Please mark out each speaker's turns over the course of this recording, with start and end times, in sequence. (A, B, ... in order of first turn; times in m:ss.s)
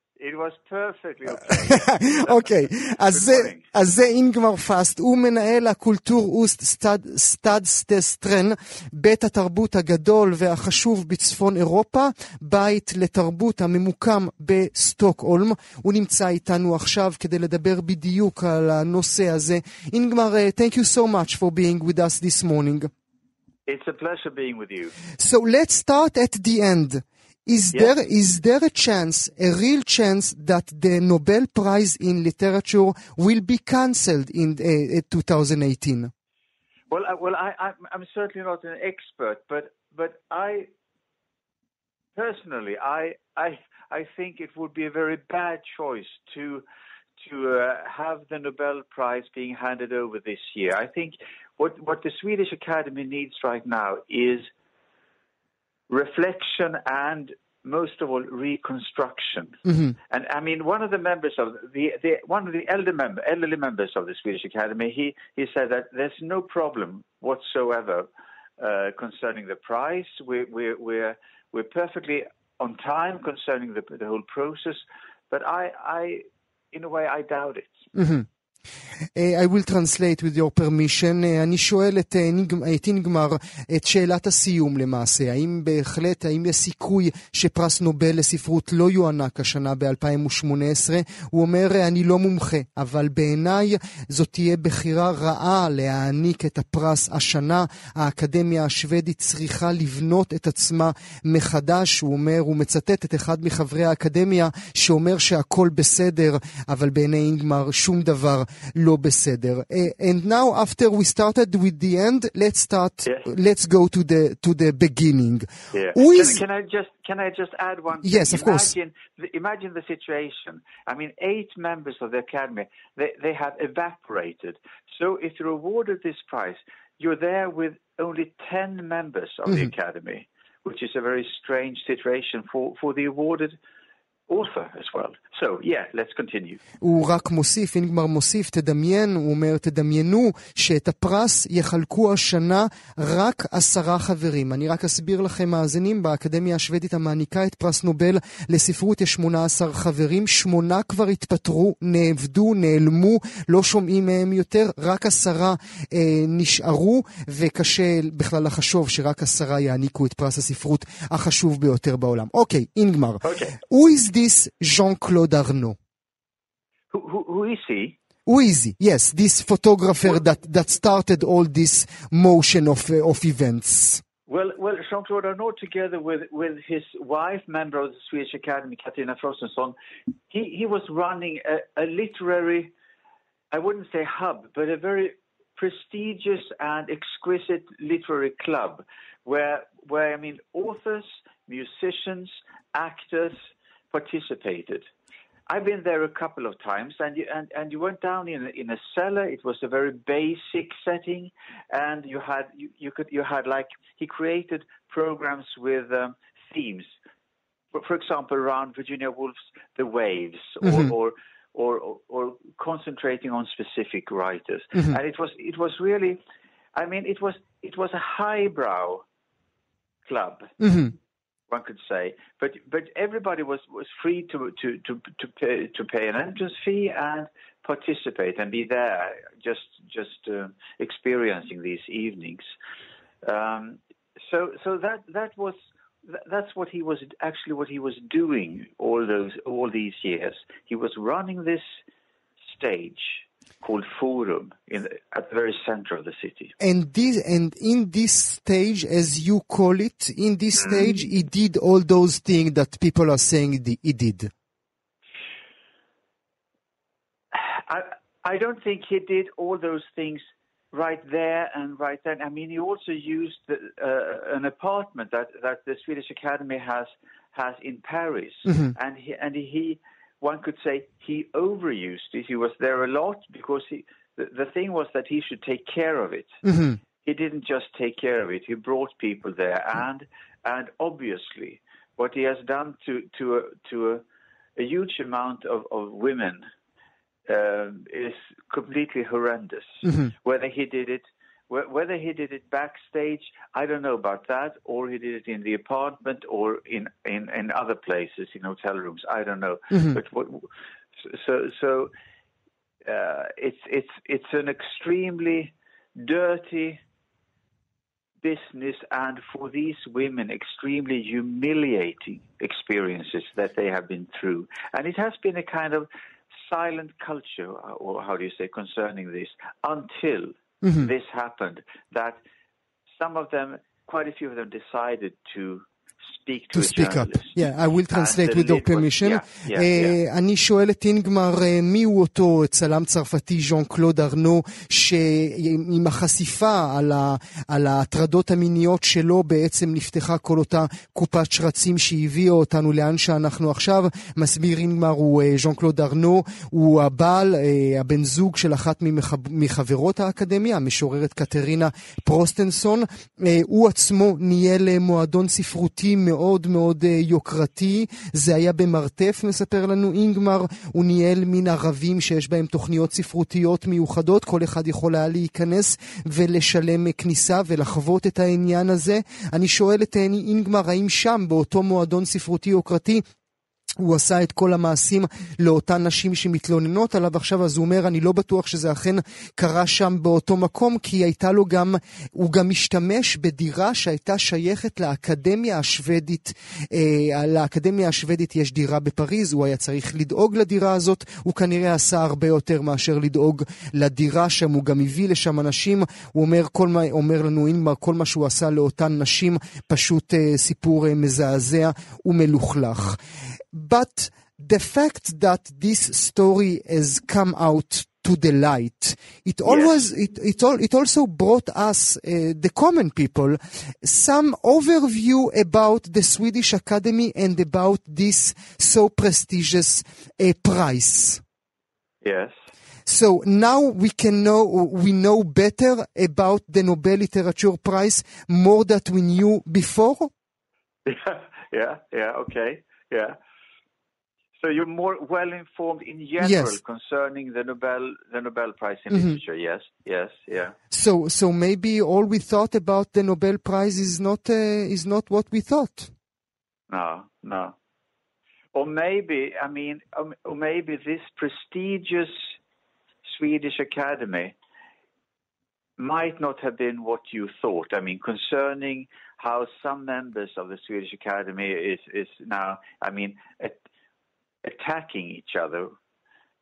0:00.2-0:03.7 A
0:01.6-0:22.9 B
0:23.7-0:25.0 A
0:25.2-0:36.1 B
0:36.9-0:40.7 A
0:42.2-0:46.6 A
0:47.2-0:54.5 A
0:55.9-1:08.1 A
0:59.7-1:00.0 B
1:08.6-1:17.8 A
1:18.0-1:18.3 B
1:19.2-1:56.4 B
1:53.0-1:53.3 A
1:55.7-2:13.6 A
1:58.0-1:58.7 B
2:14.3-2:16.6 A
2:16.8-2:45.8 B
2:43.2-2:43.6 A
2:46.9-2:48.0 A
2:48.3-2:54.0 B
2:54.3-2:59.8 A
3:00.3-3:02.7 A
3:03.5-3:13.4 A
3:13.9-3:14.9 A
3:15.5-3:26.9 A
3:27.7-3:36.2 A
3:30.6-3:30.9 B
3:36.8-3:39.0 A
3:40.1-3:40.5 A
3:40.6-3:40.9 B
3:41.5-3:52.4 A
3:53.2-4:01.8 A
4:02.4-4:06.5 A
4:06.6-4:14.3 B
4:17.3-4:36.4 A
4:28.4-4:28.7 B
4:36.4-4:36.8 B
4:37.0-4:44.0 A
4:44.6-4:46.4 A
4:47.3-5:01.9 A
4:59.7-5:00.0 B
5:02.9-5:06.8 A
5:08.2-5:15.9 A
5:16.4-5:22.2 A
5:20.6-5:20.9 B
5:23.0-5:30.0 A
5:26.5-6:13.0 B
6:13.8-6:43.0 B
6:43.5-7:01.2 B
6:49.4-6:49.8 A
7:02.0-7:02.4 A
7:02.8-7:10.1 B
7:10.8-7:13.2 A
7:14.4-7:20.6 A
7:16.2-7:16.6 B
7:18.9-7:19.2 B
7:20.7-7:25.9 B
7:26.7-7:27.6 A
7:28.5-7:32.3 A
7:33.1-7:34.3 A
7:35.8-7:43.6 A
7:44.4-7:45.7 A